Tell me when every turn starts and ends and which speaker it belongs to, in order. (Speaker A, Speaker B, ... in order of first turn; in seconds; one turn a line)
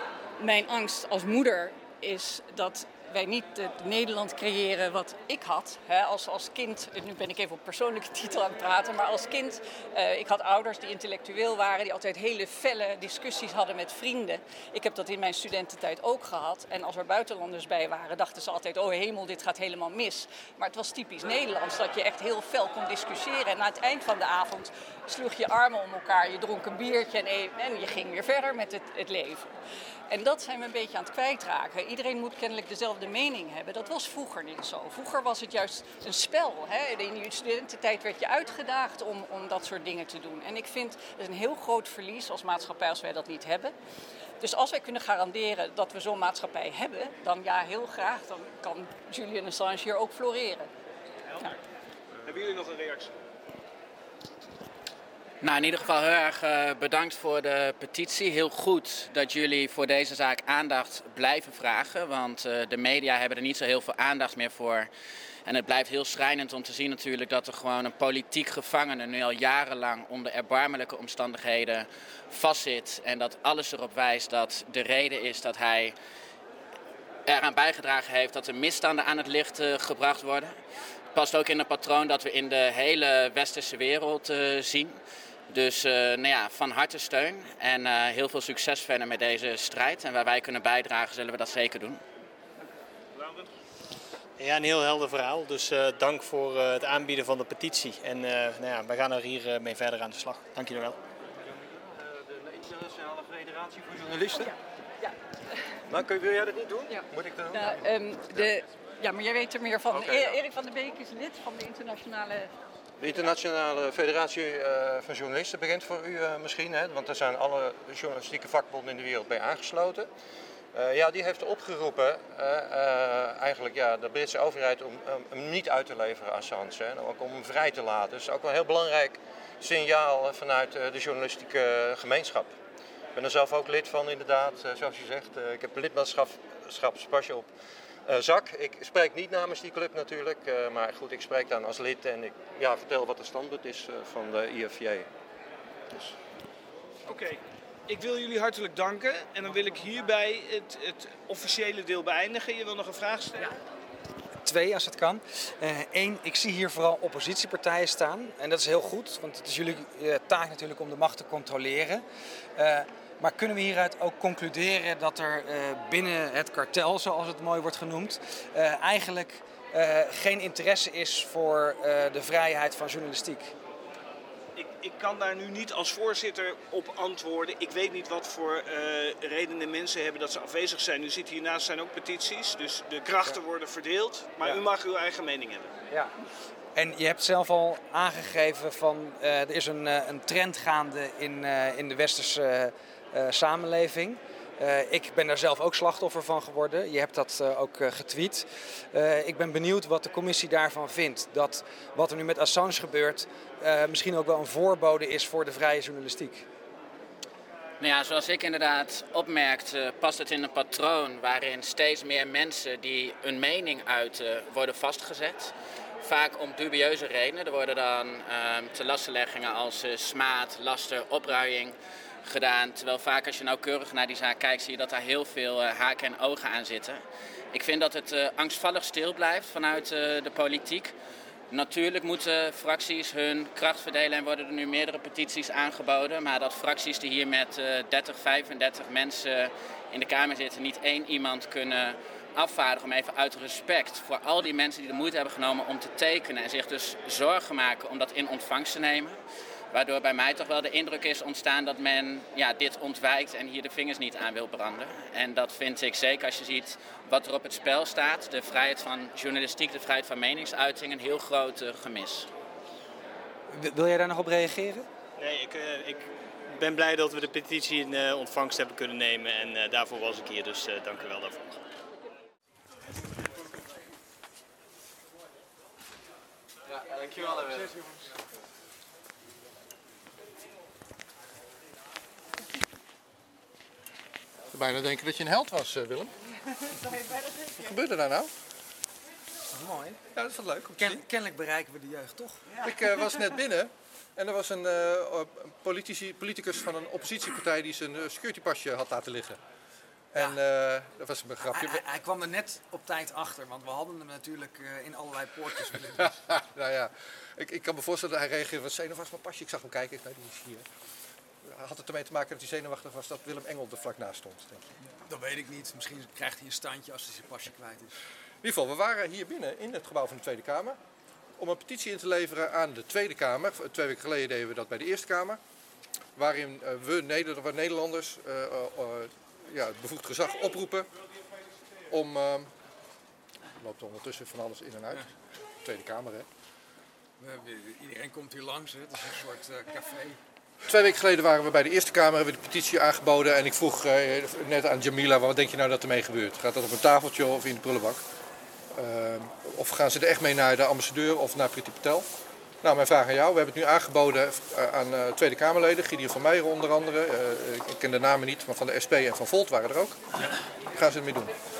Speaker A: 0.4-29.5
Speaker A: 30.1-43.7
Speaker A: 44.4-50.7
Speaker B: 52.2-53.1
Speaker C: 55.4-64.9
Speaker C: 65.5-75.9
Speaker C: 77.2-80.5
Speaker C: 81.1-84.9
Speaker C: 85.5-92.0
Speaker B: 93.2-93.5
Speaker D: 94.4-101.0
Speaker E: 101.4-104.5
Speaker E: 105.9-108.5
Speaker A: 106.9-112.5
Speaker E: 109.9-110.3
Speaker E: 113.0-120.1
Speaker E: 120.7-132.5
Speaker E: 133.2-137.5
Speaker E: 138.1-145.1
Speaker B: 147.1-153.5
Speaker F: 154.4-162.0
Speaker F: 162.6-173.5
Speaker B: 174.6-185.7
Speaker F: 186.7-206.4
Speaker C: 207.8-227.0
Speaker C: 227.5-230.9
Speaker C: 231.5-249.1
Speaker C: 249.7-262.3
Speaker F: 263.5-264.9
Speaker D: 265.2-271.5
Speaker G: 284.5-286.1
Speaker G: 287.6-288.3
Speaker F: 289.5-290.0
Speaker G: 290.1-291.0
Speaker F: 290.8-292.6
Speaker G: 292.6-299.4
Speaker G: 300.1-301.8
Speaker F: 301.5-306.1
Speaker G: 306.0-310.7
Speaker G: 311.4-314.6
Speaker F: 315.1-317.9
Speaker G: 318.4-320.8
Speaker G: 321.4-325.4
Speaker G: 326.1-330.9
Speaker G: 331.9-332.5
Speaker G: 333.6-335.1
Speaker G: 335.6-336.3
Speaker F: 337.2-340.2
Speaker G: 340.7-348.0
Speaker G: 348.8-352.1
Speaker G: 352.6-360.0
Speaker G: 360.7-361.3